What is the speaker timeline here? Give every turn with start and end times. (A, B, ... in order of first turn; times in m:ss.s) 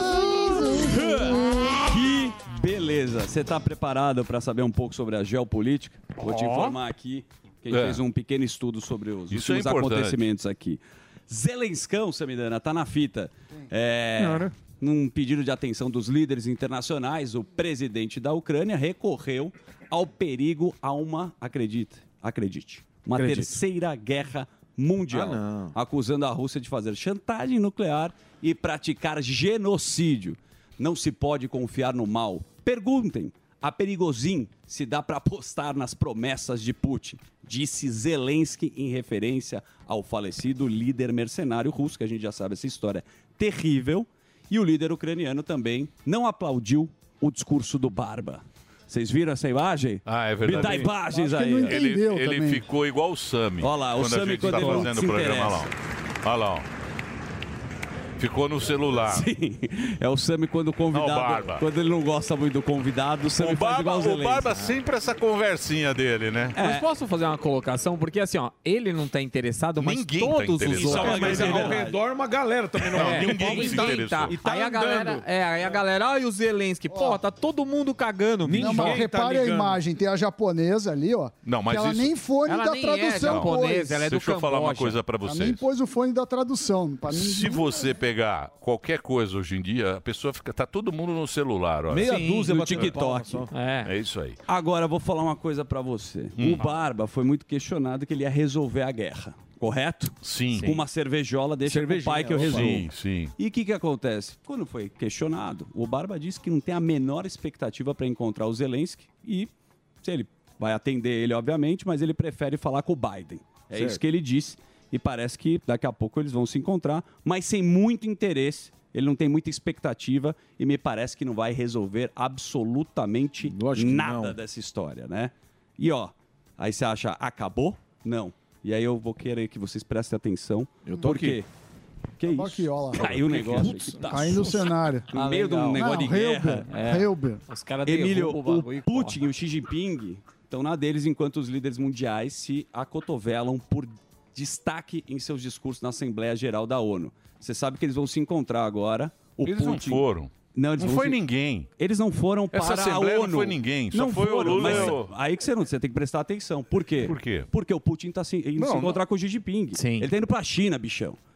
0:00.2-0:01.3 A
0:00.8-0:51.8 B
0:06.2-0:06.8 C
0:07.7-0:08.0 D
0:09.3-0:10.2 D
0:14.2-0:14.5 E
0:23.2-0:23.6 E
0:25.1-0:25.7 E
0:50.0-0:51.0 D
0:50.5-0:50.8 E
0:51.0-0:52.7 A
0:51.6-0:55.7 D
0:53.6-0:55.7 B
0:56.2-0:56.6 D
0:58.2-0:59.3 D
0:59.0-1:04.5 B
1:00.9-1:01.6 D
1:03.4-1:06.6 D
1:06.6-1:06.8 B
1:06.6-1:11.8 C
1:09.8-1:11.7 D
1:10.7-1:12.0 B
1:10.8-1:15.7 E
1:12.8-1:14.4 D
1:12.9-1:19.0 C
1:16.9-1:17.2 A
1:18.4-1:19.8 E
1:18.6-1:24.0 A
1:21.4-1:22.1 D
1:22.4-1:25.0 C
1:23.1-1:25.6 D
1:25.2-1:27.8 A
1:27.1-1:32.1 D
1:31.9-1:33.5 E
1:32.0-1:32.6 C
1:32.4-1:33.5 B
1:33.5-1:33.9 C
1:33.8-1:34.4 D
1:34.5-1:49.5 B
1:36.4-1:36.8 D
1:40.2-1:40.7 D
1:40.5-1:40.8 C
1:41.6-1:42.9 E
1:42.4-1:43.3 D
1:50.0-2:11.5 B
1:53.7-1:54.0 E
2:03.4-2:04.4 E
2:10.8-2:11.4 E
2:12.2-2:16.7 B
2:12.3-2:13.2 A
2:13.0-2:13.3 D
2:13.1-2:14.6 E
2:14.1-2:15.1 A
2:15.2-2:15.8 C
2:15.8-2:17.4 A
2:16.7-2:19.2 C
2:17.8-2:31.2 B
2:29.4-2:31.7 D
2:31.8-2:41.2 B
2:32.5-2:35.1 D
2:34.5-2:35.0 C
2:37.0-2:37.5 D
2:38.6-2:38.9 D
2:39.8-2:40.1 C